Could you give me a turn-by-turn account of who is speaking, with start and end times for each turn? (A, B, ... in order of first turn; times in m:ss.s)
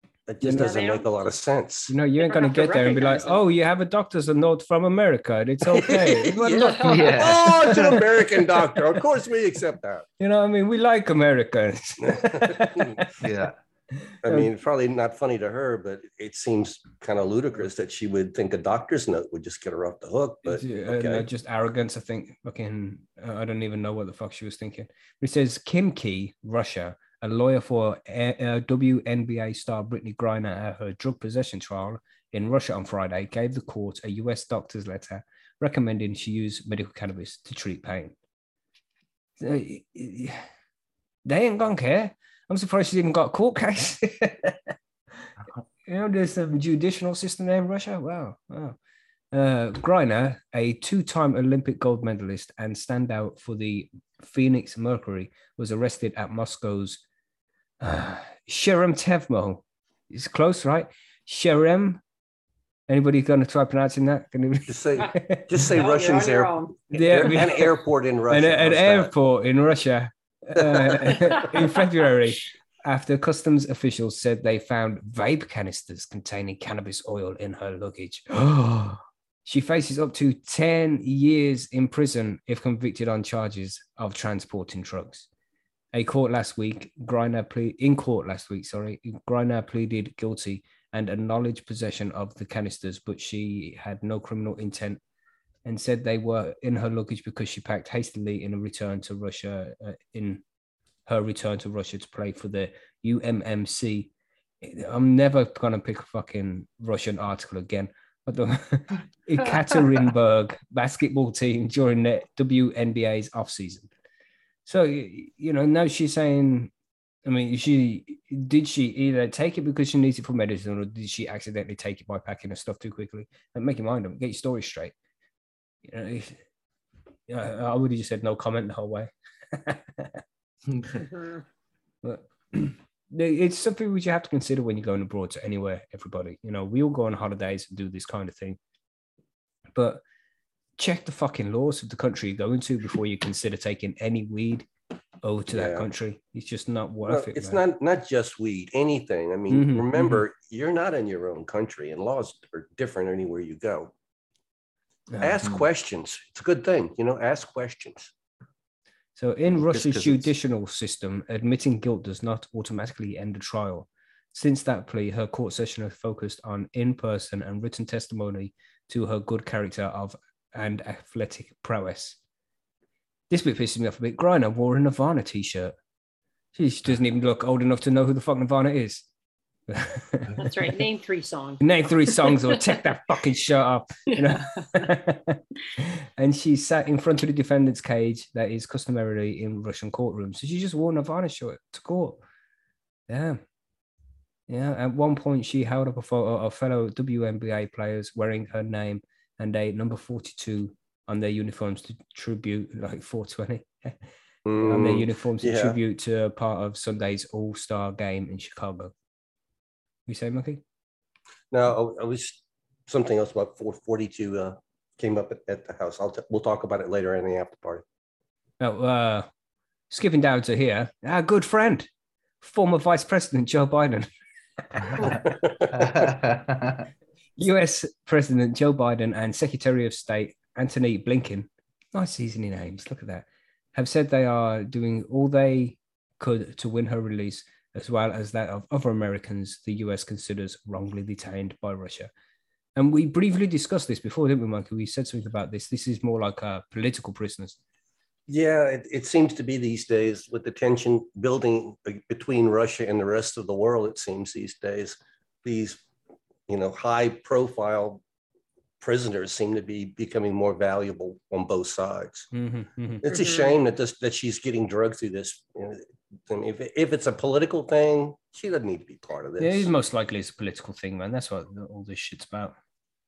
0:00.3-0:01.9 A
0:00.4-0:00.7 B
0:00.4-0:01.1 C
0:01.9-0:08.0 B
0:02.2-0:03.4 C
0:05.7-0:10.0 A
0:06.6-0:07.0 C
0:06.8-0:08.0 D
0:10.2-0:13.1 B
0:12.0-0:13.0 A
0:13.2-0:13.5 D
0:14.0-0:14.4 B
0:14.2-0:21.2 A
0:20.4-0:38.1 B
0:39.4-0:40.5 B
0:41.2-0:45.3 B
0:45.8-0:48.8 B
0:49.3-0:57.0 B
0:57.8-1:02.0 B
1:02.9-1:05.6 B
1:04.7-1:09.1 A
1:05.7-1:06.8 C
1:06.9-1:25.3 B
1:10.6-1:11.4 A
1:25.9-1:35.0 B
1:35.6-1:40.4 B
1:41.0-1:44.1 B
1:44.6-1:53.9 B
1:54.6-1:56.7 B
1:57.2-2:04.9 B
2:05.8-2:06.4 B
2:07.3-2:10.2 B
2:10.7-2:11.0 D
2:11.1-2:11.4 C
2:12.0-2:18.6 B
2:19.7-2:20.0 B
2:20.8-2:24.7 B
2:25.2-2:27.6 B
2:25.5-2:25.9 A
2:27.0-2:33.9 A
2:29.5-2:30.2 B
2:35.1-2:35.4 B
2:35.2-2:38.1 A
2:39.2-2:52.2 B
2:39.5-2:40.3 D
2:53.3-2:55.7 B
2:56.5-2:59.0 B
2:59.7-3:00.7 B
3:00.4-3:01.6 C
3:01.6-3:12.2 B
3:04.2-3:04.8 C
3:13.1-3:13.4 B
3:14.5-3:24.0 B
3:24.4-3:25.8 A
3:24.6-3:28.9 B
3:30.1-3:30.6 B
3:31.5-3:37.8 A
3:38.6-3:39.3 B
3:39.9-3:41.9 B
3:42.4-3:44.1 B
3:44.7-3:45.2 B
3:45.0-3:45.9 A
3:45.7-3:46.9 D
3:47.4-4:02.1 B
4:02.8-4:07.6 B
4:08.3-4:15.8 A
4:16.5-4:18.0 A
4:18.8-4:22.3 A
4:22.3-4:23.0 B
4:23.0-4:29.7 A
4:23.1-4:23.6 C
4:29.4-4:32.5 B